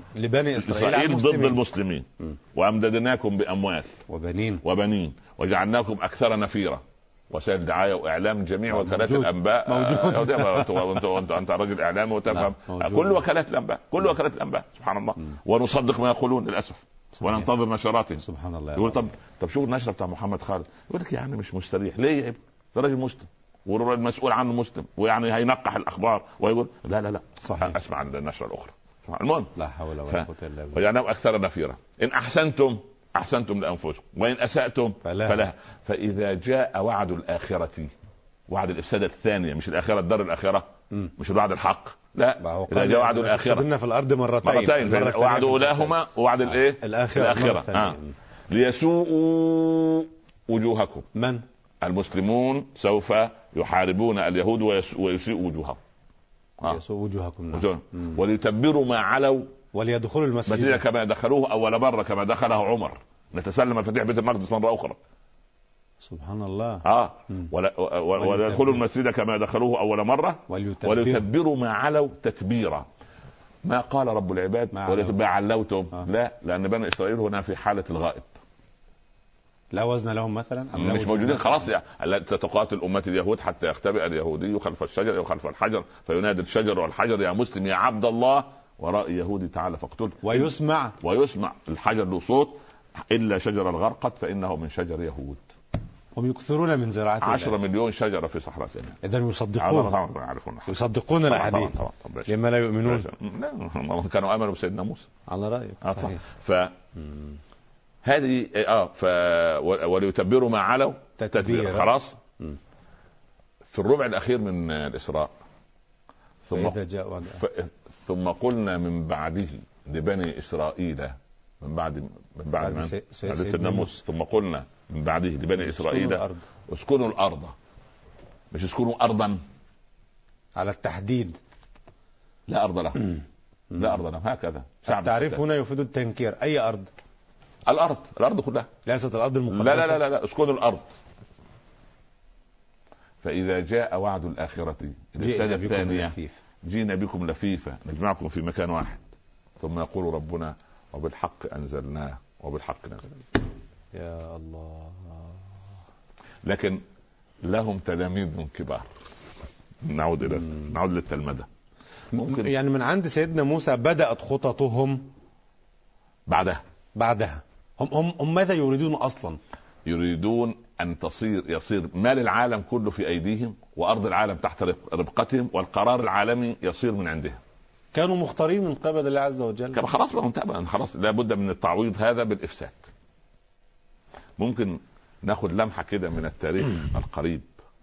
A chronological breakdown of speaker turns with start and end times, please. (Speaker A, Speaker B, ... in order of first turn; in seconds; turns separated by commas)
Speaker A: 0.1-1.6, Speaker B: 0.6-3.9, Speaker A: 4.1-4.6, Speaker B: 4.6-29.5, Speaker A: 8.7-10.9, Speaker A: 12.3-13.2, Speaker A: 18.2-19.1, Speaker A: 27.4-27.7, Speaker A: 29.6-30.8, Speaker B: 30.1-37.9, Speaker A: 35.0-35.5, Speaker B: 38.5-43.7, Speaker A: 42.4-46.0, Speaker B: 44.4-48.0, Speaker A: 46.8-48.1, Speaker B: 48.5-51.1, Speaker A: 51.1-51.4, Speaker B: 51.8-55.8, Speaker A: 56.6-58.2, Speaker B: 57.5-59.5, Speaker A: 59.7-60.8, Speaker B: 60.5-65.0, Speaker A: 66.0-67.5, Speaker B: 66.8-72.8, Speaker A: 68.2-68.8, Speaker A: 70.5-71.3, Speaker B: 73.6-78.3, Speaker A: 74.7-75.1, Speaker A: 79.7-81.7, Speaker B: 80.7-92.6, Speaker A: 90.2-91.0, Speaker B: 93.1-95.5, Speaker A: 96.2-97.5, Speaker B: 97.2-99.0, Speaker A: 99.0-99.9, Speaker B: 99.6-102.3, Speaker A: 100.7-101.8, Speaker A: 102.3-103.1, Speaker B: 102.8-105.1, Speaker A: 105.3-106.2, Speaker B: 105.8-106.8, Speaker B: 108.0-112.2, Speaker A: 111.2-112.6, Speaker B: 113.7-115.3, Speaker B: 116.5-127.5, Speaker A: 116.5-117.4, Speaker A: 122.6-124.0, Speaker A: 125.6-126.4, Speaker B: 128.5-129.4, Speaker A: 130.6-131.4, Speaker B: 132.5-133.2, Speaker B: 133.7-135.4, Speaker A: 134.8-136.9, Speaker B: 137.7-138.7, Speaker A: 138.8-140.0, Speaker B: 139.5-140.8, Speaker B: 143.2-149.0, Speaker A: 145.2-146.4, Speaker B: 149.6-153.1, Speaker A: 153.9-155.4, Speaker B: 156.4-156.8, Speaker B: 157.4-158.9, Speaker B: 159.8-161.5, Speaker A: 162.1-165.1, Speaker B: 162.2-162.5, Speaker B: 166.3-166.6, Speaker A: 166.9-169.4, Speaker B: 169.8-177.4, Speaker A: 177.9-179.8, Speaker B: 179.7-182.8, Speaker B: 184.4-187.5